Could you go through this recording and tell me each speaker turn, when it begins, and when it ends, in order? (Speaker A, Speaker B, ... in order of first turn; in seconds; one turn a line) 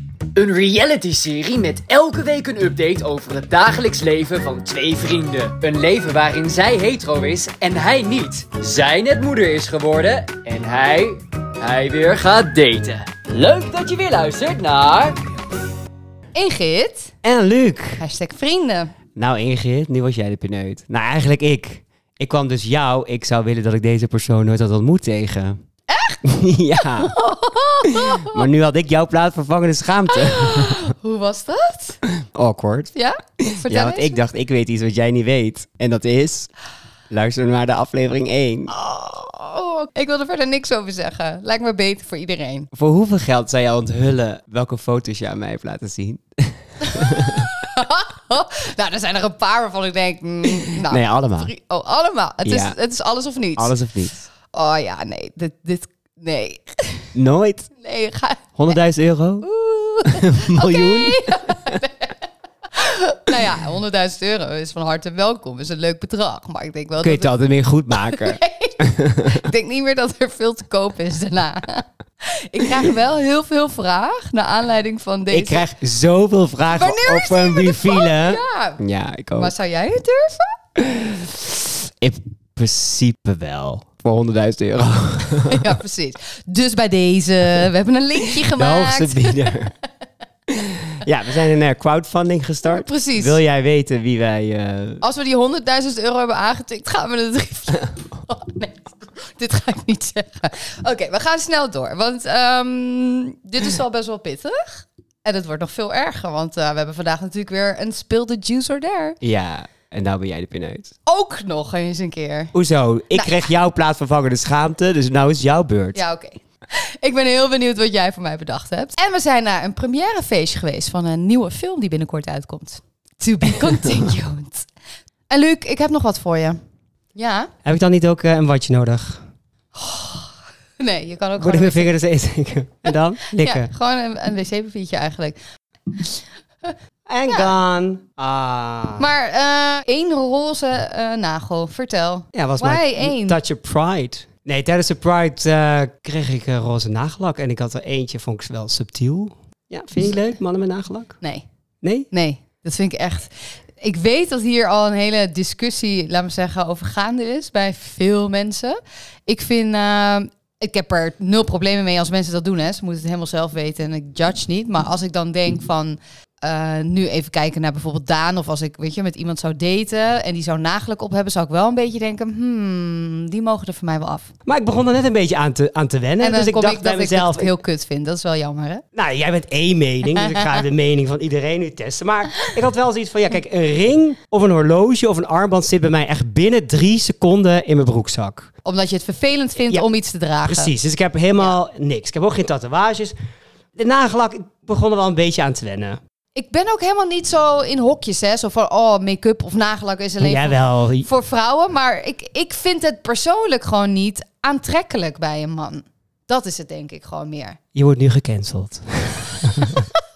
Speaker A: 0.3-15.2
Speaker B: 16.3-17.1
Speaker C: 17.2-18.0
Speaker B: 18.0-18.9
Speaker C: 19.1-25.6
Speaker B: 25.9-26.2
Speaker C: 26.2-27.1
Speaker B: 27.0-28.4
Speaker C: 27.8-30.8
Speaker B: 30.1-32.0
Speaker C: 32.1-36.5
Speaker B: 32.9-34.2
Speaker C: 37.1-38.7
Speaker B: 38.7-42.7
Speaker C: 42.7-47.5
Speaker B: 47.1-53.7
Speaker C: 50.8-51.5
Speaker C: 52.4-52.8
Speaker C: 53.5-54.3
Speaker B: 54.5-57.1
Speaker C: 57.1-57.7
Speaker B: 57.8-58.7
Speaker C: 58.5-59.5
Speaker B: 59.4-62.1
Speaker C: 60.1-61.8
Speaker B: 62.7-67.3
Speaker C: 67.0-69.4
Speaker B: 68.1-75.6
Speaker C: 75.3-79.5
Speaker B: 76.7-78.8
Speaker B: 79.4-80.5
Speaker C: 80.8-85.8
Speaker B: 85.4-89.6
Speaker C: 88.3-89.7
Speaker C: 90.5-95.0
Speaker B: 92.7-93.4
Speaker B: 95.0-109.2
Speaker C: 109.2-110.9
Speaker B: 111.0-112.5
Speaker C: 112.5-116.0
Speaker B: 113.1-113.5
Speaker B: 115.9-124.7
Speaker B: 125.3-126.6
Speaker B: 127.1-127.5
Speaker C: 127.6-129.2
Speaker B: 129.7-131.9
Speaker C: 131.4-133.7
Speaker B: 133.3-135.4
Speaker B: 135.9-136.7
Speaker C: 137.1-139.1
Speaker B: 139.0-143.4
Speaker C: 142.3-151.2
Speaker C: 151.8-152.1
Speaker B: 152.1-174.3
Speaker C: 174.4-177.5
Speaker B: 176.2-178.8
Speaker C: 178.9-188.5
Speaker B: 180.2-180.6
Speaker B: 188.6-190.7
Speaker C: 190.4-193.1
Speaker C: 193.8-196.0
Speaker B: 196.3-207.6
Speaker C: 200.2-201.1
Speaker C: 207.7-209.8